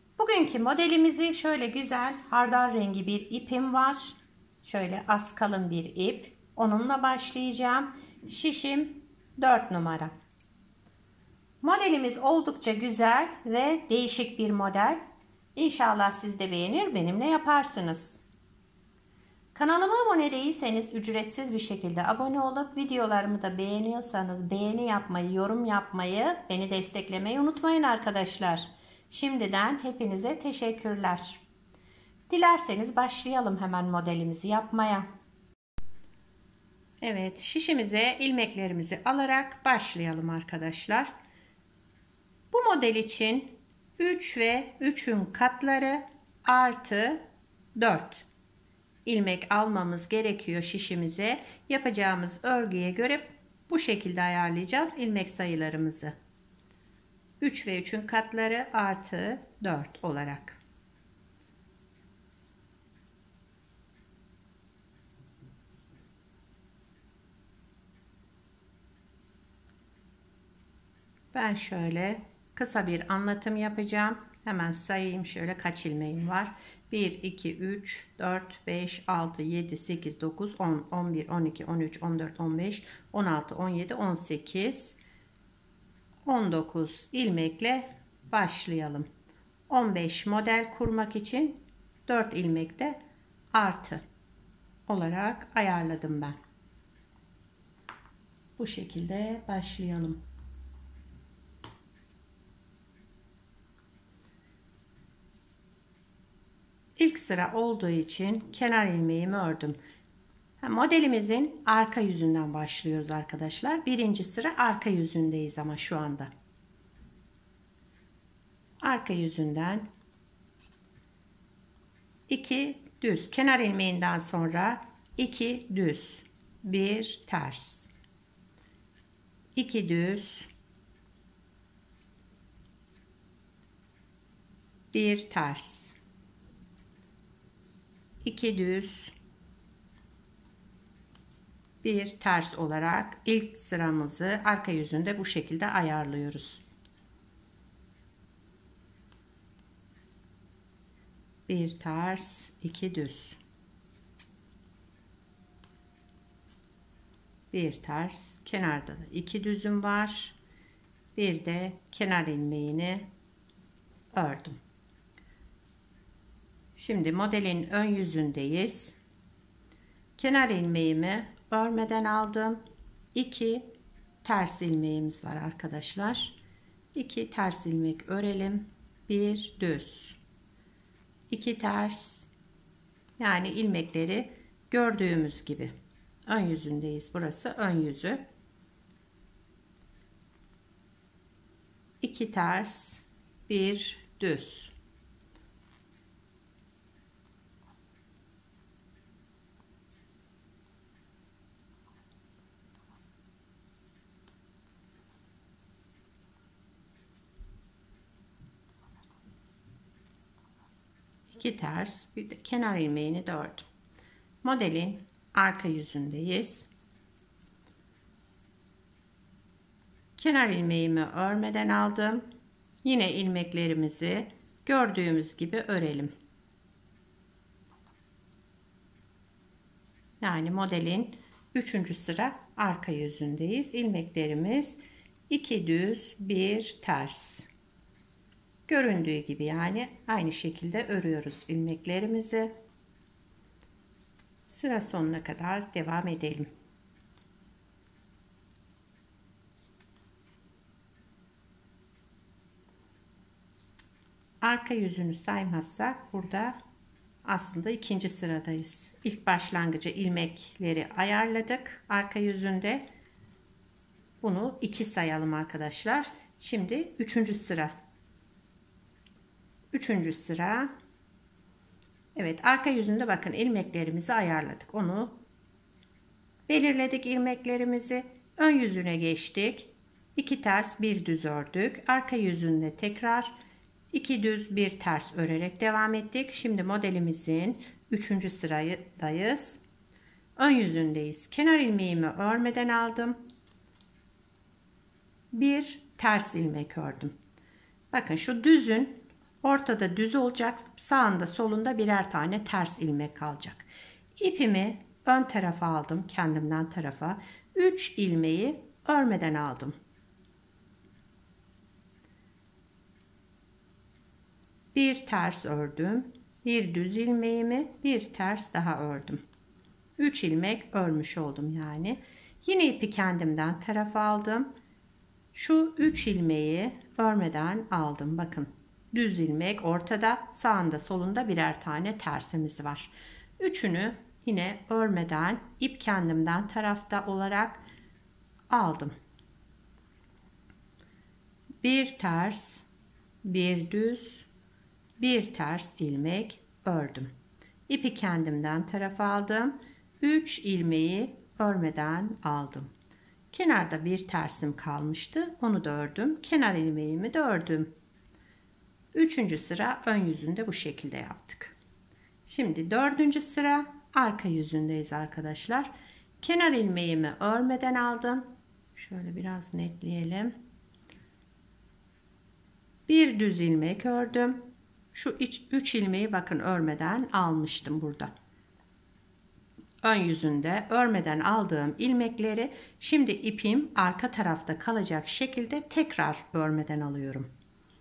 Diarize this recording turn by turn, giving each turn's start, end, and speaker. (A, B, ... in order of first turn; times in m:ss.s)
0:00.2-0:10.1 A
0:11.6-0:15.0 A
0:15.6-0:18.2 A
0:19.5-0:31.4 A
0:32.3-0:35.0 A
0:37.0-0:41.1 A
0:42.5-0:47.2 A
0:47.8-0:48.2 A
0:49.0-0:56.1 A
0:57.4-1:00.6 A
1:11.3-1:25.0 A
1:26.2-1:29.1 A
1:29.7-1:33.0 A
1:33.5-1:34.0 A
1:34.9-1:36.4 A
1:38.6-1:40.2 A
1:47.0-1:49.8 A
1:50.6-1:56.3 A
1:58.8-1:59.8 A
2:02.3-2:07.9 A
2:09.6-2:10.5 A
2:14.9-2:16.0 A
2:18.2-2:19.1 A
2:21.8-2:26.6 A
2:31.5-2:33.4 A
2:37.5-2:40.4 A
2:41.2-2:43.0 A
2:44.1-2:44.6 A
2:46.7-2:49.0 A
2:50.2-2:52.6 A
2:53.1-2:53.7 A
2:54.2-2:56.4 A
2:56.9-3:00.2 A
3:01.3-3:02.3 A
3:03.2-3:05.7 A
3:06.3-3:08.2 A
3:12.0-3:14.7 A
3:31.3-3:33.6 A
3:34.4-3:36.7 A
3:40.2-3:42.2 A
3:42.8-3:46.1 A
3:50.2-3:57.5 A
3:58.7-4:02.5 A
4:04.4-4:06.5 A
4:14.4-4:16.6 A
4:17.2-4:22.8 A
4:24.2-4:27.7 A
4:29.7-4:30.7 A
4:32.1-4:35.2 A
4:36.5-4:43.3 A
4:43.9-4:49.6 A
4:50.4-4:53.2 A
4:55.3-4:57.1 A
4:57.9-5:03.6 A
5:04.2-5:09.8 A
5:14.7-5:19.2 A
5:20.0-5:24.5 A
5:25.3-5:37.6 A
5:38.5-5:38.9 A
5:41.6-5:42.6 A
5:43.2-5:44.3 A
5:45.0-5:47.1 A
5:47.7-5:52.7 A
5:53.3-5:57.7 A
5:58.9-6:01.5 A
6:02.2-6:10.3 A
6:12.9-6:18.1 A
6:19.8-6:27.3 A